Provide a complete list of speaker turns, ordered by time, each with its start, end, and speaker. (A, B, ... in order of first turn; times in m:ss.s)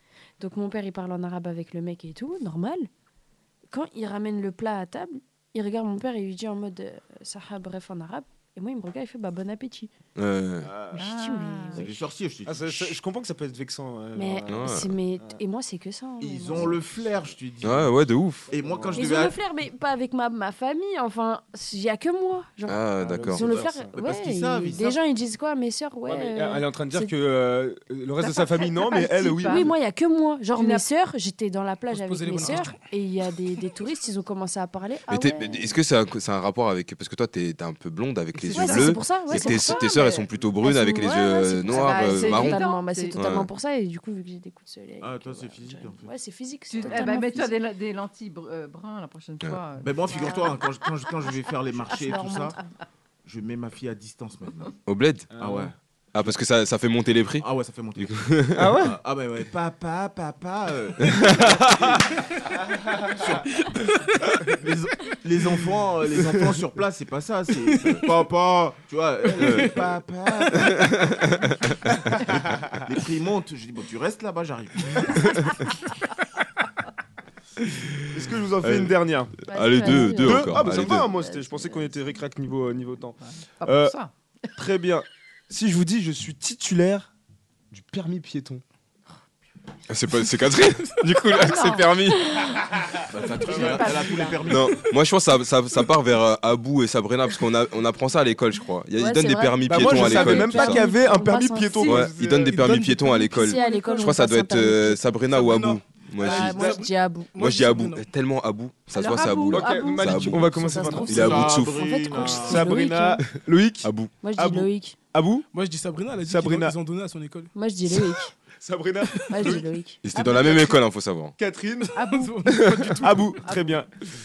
0:00.4-0:02.9 A
0:03.7-0:09.9 A
0:10.2-0:10.7 B
0:10.6-0:11.1 C
0:10.9-0:12.1 A
0:11.0-0:11.8 D
0:11.7-0:13.0 E
0:12.4-0:15.4 C
0:14.1-0:16.9 A
0:14.5-0:14.9 B
0:16.2-0:19.4 E
0:17.6-0:18.5 B
0:18.5-0:19.0 C
0:18.9-0:27.1 A
0:22.7-0:23.5 B
0:23.0-0:23.9 C
0:23.9-0:25.0 E
0:26.0-0:29.7 C
0:28.2-0:29.7 D
0:29.2-0:35.7 A
0:30.5-0:30.8 D
0:31.9-0:32.8 F
0:35.1-0:42.6 B
0:38.4-0:47.6 A
0:38.4-0:40.3 D
0:41.7-0:43.2 D
0:43.1-0:43.5 B
0:45.0-0:46.1 E
0:46.7-0:50.5 D
0:49.8-0:52.6 E
0:50.0-0:50.6 A
0:51.8-0:52.6 A
0:53.2-0:54.8 E
0:54.8-0:55.3 B
0:55.3-0:55.7 C
0:55.4-0:55.7 E
0:56.1-0:58.7 B
0:57.4-1:03.8 E
0:58.6-0:59.0 C
1:01.0-1:01.8 B
1:04.4-1:11.2 E
1:07.6-1:08.2 F
1:09.4-1:09.7 F
1:09.4-1:09.7 B
1:10.6-1:11.9 B
1:12.1-1:15.4 E
1:18.1-1:23.9 C
1:18.6-1:21.1 B
1:19.5-1:22.0 A
1:23.2-1:24.1 D
1:24.6-1:27.1 C
1:27.7-1:28.6 C
1:29.9-1:32.2 B
1:31.4-1:31.9 D
1:33.1-1:34.8 E
1:33.2-1:34.4 D
1:33.5-1:33.9 C
1:34.5-1:40.8 B
1:39.0-1:42.1 A
1:39.6-1:42.9 C
1:41.8-1:46.7 B
1:42.4-1:43.6 F
1:43.1-1:45.2 A
1:45.3-1:48.0 F
1:46.2-1:47.4 A
1:47.4-1:51.8 B
1:48.9-1:50.0 D
1:49.5-1:53.2 A
1:49.5-1:51.4 C
1:51.1-1:52.8 E
1:52.2-1:55.4 C
1:53.8-1:54.1 B
1:54.2-1:55.0 A
1:55.5-1:57.5 F
1:56.2-1:56.7 C
1:57.5-1:58.3 A
1:58.6-1:59.7 C
1:59.1-1:59.6 F
1:59.3-2:00.7 A
2:00.0-2:01.3 B
2:00.2-2:00.5 C
2:01.4-2:02.0 C
2:01.9-2:02.4 D
2:02.0-2:03.4 F
2:02.9-2:03.9 C
2:03.4-2:03.7 D